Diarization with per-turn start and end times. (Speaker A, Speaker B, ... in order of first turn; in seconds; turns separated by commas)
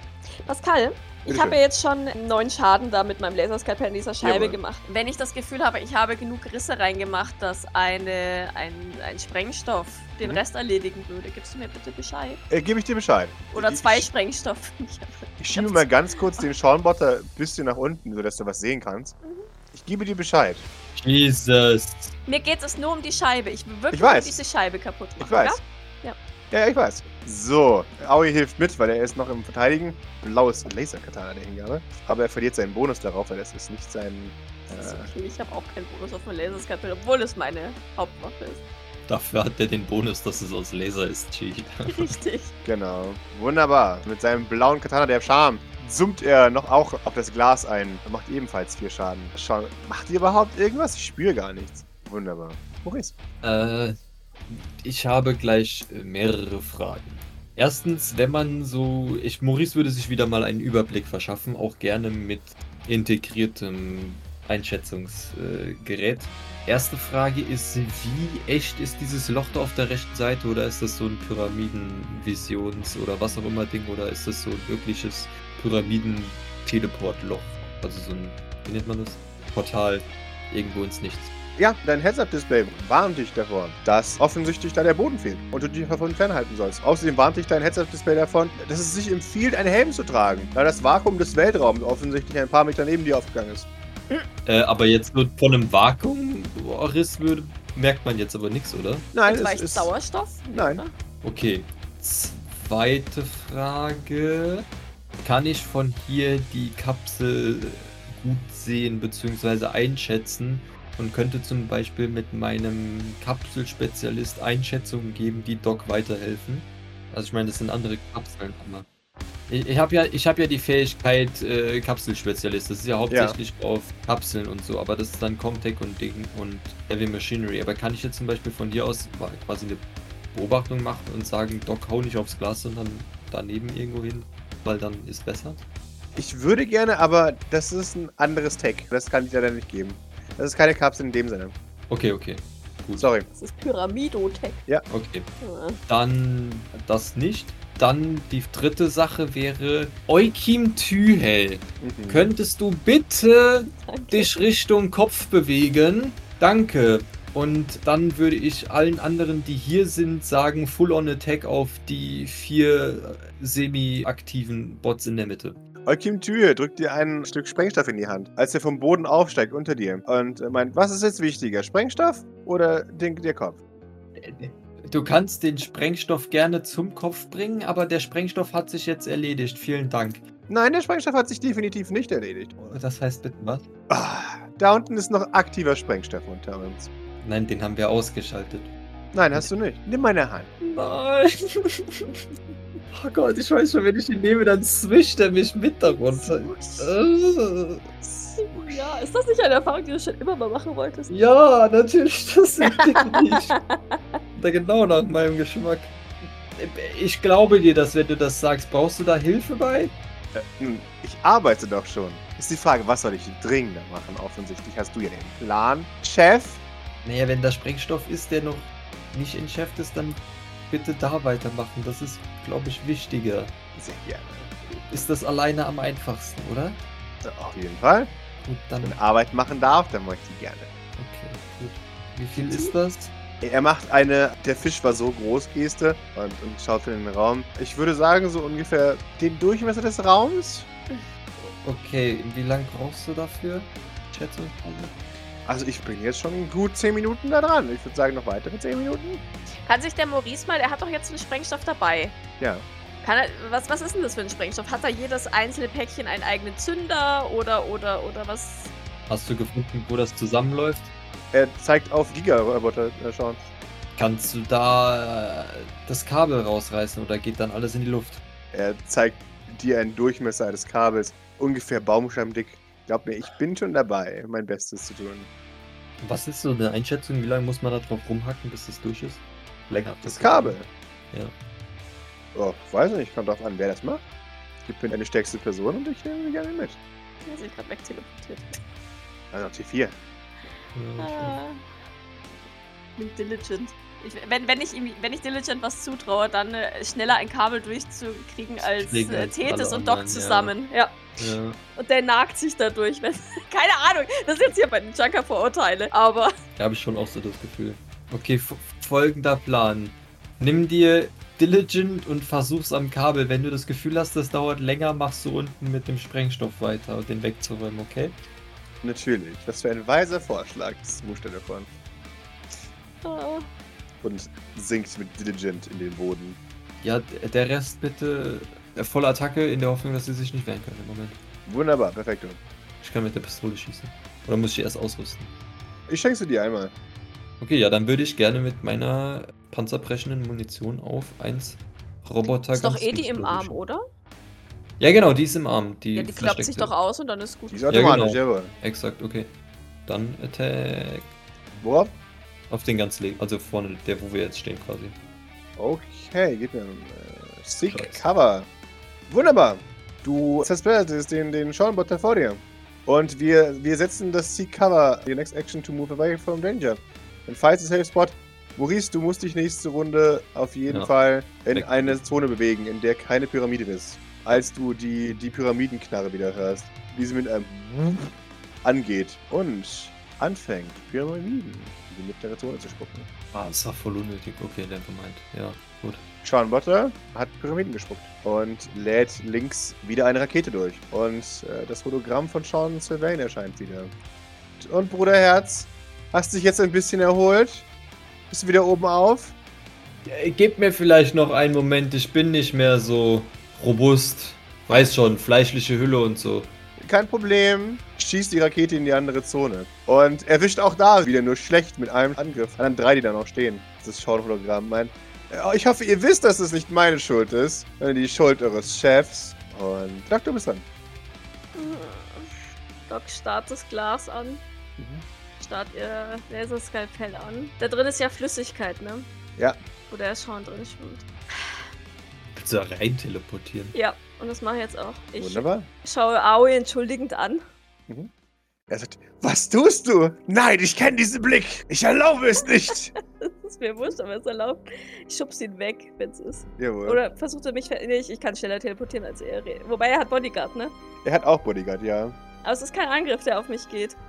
Speaker A: 0.4-12.4, Speaker B: 1.3-1.6, Speaker B: 4.2-4.6, Speaker B: 12.5-14.1, Speaker A: 13.5-16.5, Speaker B: 15.4-19.1, Speaker A: 19.2-19.5, Speaker B: 19.7-20.6, Speaker C: 20.9-22.1, Speaker A: 22.3-26.1, Speaker B: 23.9-24.4, Speaker B: 25.2-25.6, Speaker B: 26.5-35.1, Speaker A: 34.7-38.6, Speaker C: 39.1-42.1, Speaker A: 41.9-42.5, Speaker B: 42.6-53.1, Speaker C: 53.4-54.0, Speaker C: 54.5-81.3, Speaker B: 81.6-93.7, Speaker C: 94.5-99.1, Speaker B: 99.1-99.9, Speaker A: 99.2-100.9, Speaker B: 100.5-100.8, Speaker C: 101.2-104.7, Speaker C: 105.2-118.8, Speaker C: 119.5-135.6, Speaker B: 123.1-123.4, Speaker B: 136.2-141.5, Speaker C: 141.9-143.1, Speaker B: 143.0-143.3, Speaker A: 143.3-144.6, Speaker C: 144.9-145.3, Speaker A: 145.4-145.8, Speaker C: 145.9-165.6, Speaker B: 151.8-152.3, Speaker A: 153.7-154.3, Speaker B: 165.8-173.6, Speaker C: 174.2-180.2, Speaker B: 180.5-182.5, Speaker C: 182.6-183.7, Speaker B: 183.9-186.9, Speaker C: 187.2-188.7, Speaker B: 189.1-190.5, Speaker C: 190.7-192.2, Speaker C: 192.9-197.8, Speaker A: 195.8-196.9, Speaker B: 198.0-198.7, Speaker A: 198.4-201.1, Speaker C: 201.1-203.6, Speaker A: 202.6-204.0, Speaker C: 204.3-209.9, Speaker B: 210.3-216.6, Speaker C: 217.0-223.5, Speaker B: 223.7-224.5, Speaker C: 224.7-226.8, Speaker B: 227.2-228.1, Speaker C: 228.4-228.9, Speaker B: 228.8-230.7, Speaker C: 231.0-233.1, Speaker A: 232.4-232.7, Speaker B: 233.4-240.7, Speaker C: 241.4-244.9, Speaker B: 245.4-249.2, Speaker A: 249.6-252.2, Speaker B: 252.4-252.6, Speaker A: 253.0-258.7, Speaker C: 259.1-260.9, Speaker B: 261.3-263.4, Speaker C: 263.9-268.2, Speaker B: 268.5-275.3, Speaker C: 276.0-280.6, Speaker B: 280.0-280.7, Speaker B: 282.3-284.0, Speaker B: 284.6-286.8, Speaker A: 287.2-288.5, Speaker B: 289.3-289.9, Speaker C: 290.7-291.4, Speaker A: 291.0-291.6, Speaker A: 293.0-306.3, Speaker C: 298.6-300.5, Speaker C: 301.2-301.6, Speaker C: 306.6-318.1, Speaker B: 318.8-321.7, Speaker A: 323.0-323.5, Speaker B: 324.0-326.4, Speaker C: 326.8-331.2, Speaker B: 331.4-332.4, Speaker C: 332.8-335.3, Speaker B: 335.9-336.7, Speaker C: 337.4-343.6, Speaker A: 342.5-343.8, Speaker C: 344.8-346.7, Speaker A: 345.9-347.8, Speaker B: 347.5-348.5, Speaker C: 347.7-349.3, Speaker C: 349.9-351.1, Speaker B: 351.6-351.9, Speaker C: 352.5-354.9, Speaker B: 355.6-358.5, Speaker C: 357.6-358.0, Speaker B: 359.1-378.1, Speaker C: 371.5-372.0, Speaker B: 378.6-383.1, Speaker C: 383.3-386.0, Speaker B: 386.2-393.9, Speaker B: 394.6-397.6, Speaker B: 398.3-399.3, Speaker C: 400.0-406.5, Speaker B: 406.8-420.6, Speaker A: 421.5-422.3, Speaker A: 422.9-424.4, Speaker B: 424.8-425.0, Speaker A: 425.4-429.1, Speaker A: 429.9-431.6, Speaker C: 432.3-433.7, Speaker A: 433.7-437.4, Speaker B: 435.2-435.7, Speaker B: 438.7-442.9, Speaker A: 443.2-450.7, Speaker B: 446.6-447.0, Speaker B: 451.0-452.1, Speaker A: 452.4-454.0